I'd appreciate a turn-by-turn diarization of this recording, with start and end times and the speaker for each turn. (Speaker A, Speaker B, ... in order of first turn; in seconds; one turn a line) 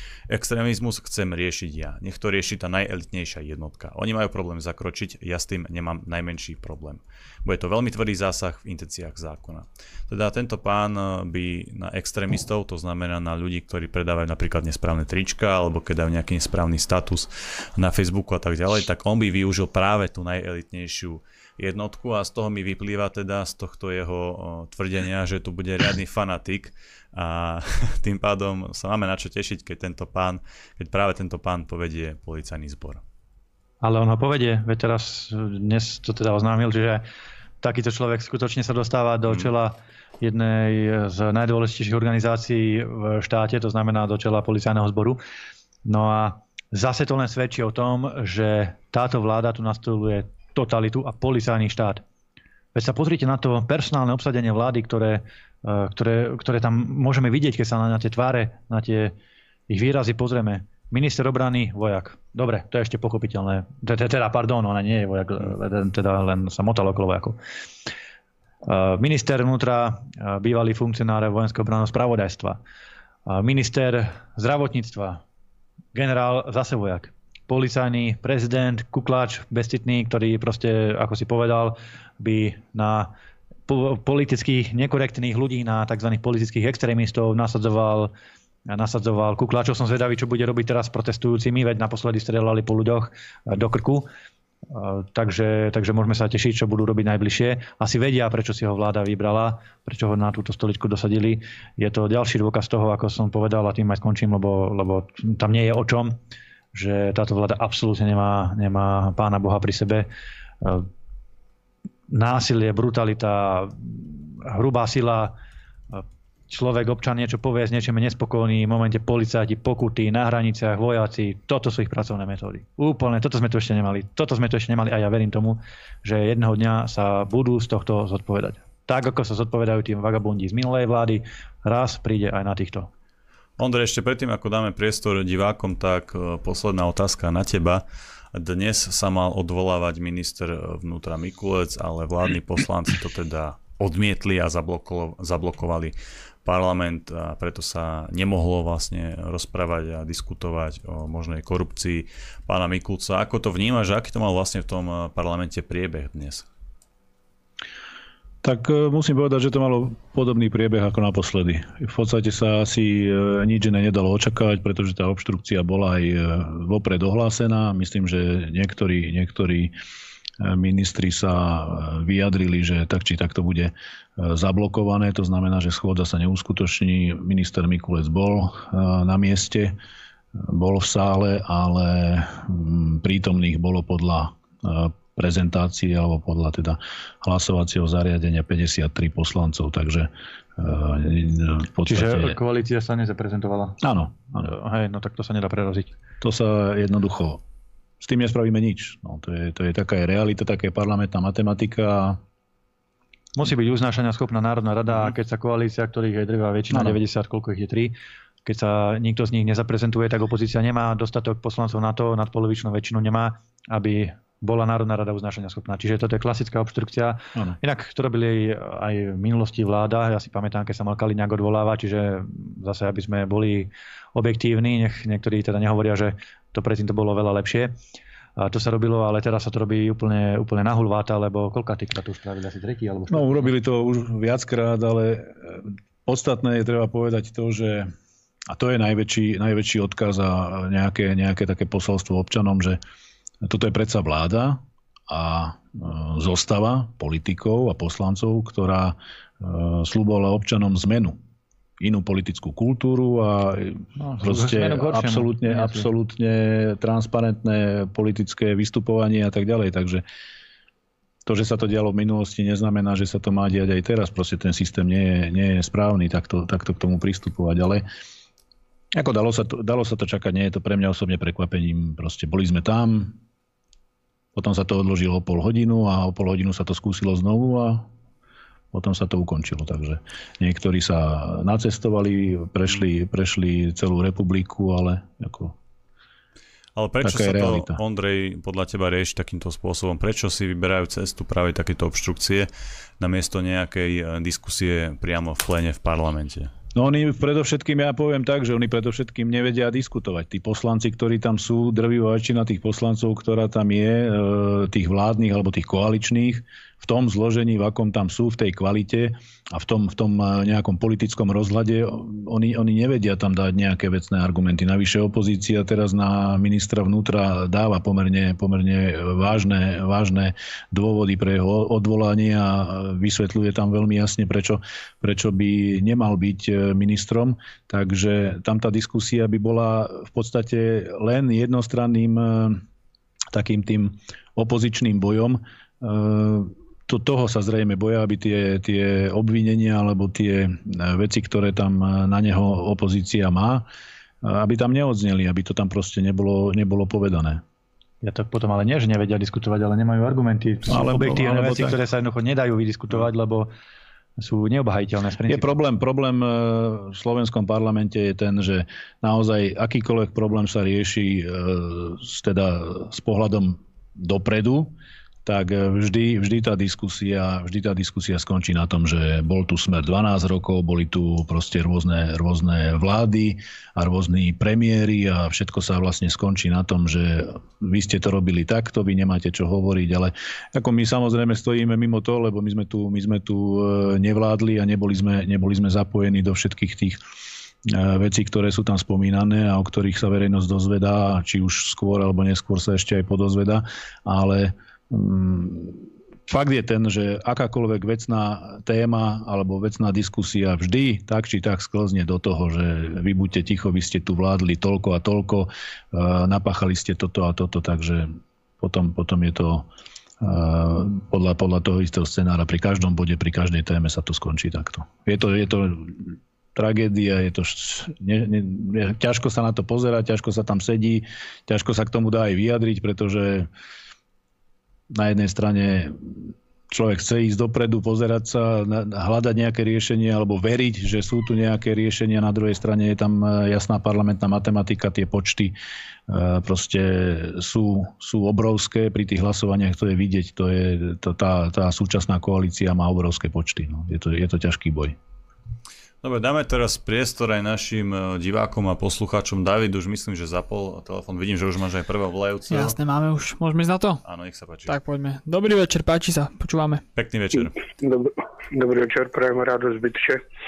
Speaker A: 0.3-33.0
Speaker B: 33.8-37.0
Speaker B: 37.6-45.2
Speaker B: 45.9-52.0
Speaker B: 52.7-59.1
Speaker B: 59.7-67.4
Speaker B: 68.6-72.6
Speaker B: 73.3-75.2
Speaker B: 75.9-83.1
Speaker B: 83.7-88.1
Speaker B: 88.7-94.1
Speaker B: 94.7-106.2
Speaker B: 106.7-110.1
Speaker B: 110.6-110.9
Speaker B: 112.1-115.4
Speaker B: 115.9-132.9
Speaker A: 133.6-156.5
Speaker C: 158.4-169.7
Speaker C: 170.4-179.8
Speaker C: 180.4-192.4
Speaker B: 191.9-193.8
Speaker C: 193.8-194.5
Speaker B: 194.4-195.9
Speaker C: 196.2-197.4
Speaker C: 198.0-202.2
Speaker B: 203.4-227.8
Speaker C: 206.7-207.0
Speaker B: 228.4-233.5
Speaker C: 233.1-237.9
Speaker C: 238.5-242.8
Speaker C: 243.4-251.2
Speaker C: 251.8-260.1
Speaker B: 254.0-255.9
Speaker C: 261.3-267.9
Speaker C: 268.9-273.2
Speaker C: 274.4-277.9
Speaker C: 278.7-285.6
Speaker A: 286.8-292.5
Speaker C: 287.0-287.8
Speaker A: 293.0-296.5
Speaker C: 296.8-332.6
Speaker C: 333.3-343.7
Speaker C: 344.2-347.4
Speaker B: 348.0-353.5
Speaker C: 350.7-351.8
Speaker B: 354.2-355.4
Speaker C: 355.3-387.0
Speaker C: 387.6-409.7
Speaker C: 410.2-423.5
Speaker C: 424.9-435.6
Speaker C: 436.1-445.0
Speaker A: 446.0-452.8
Speaker D: 452.5-454.0
Speaker A: 454.0-454.7
Speaker D: 454.7-456.8
Speaker A: 456.9-457.6
Speaker E: 457.8-460.2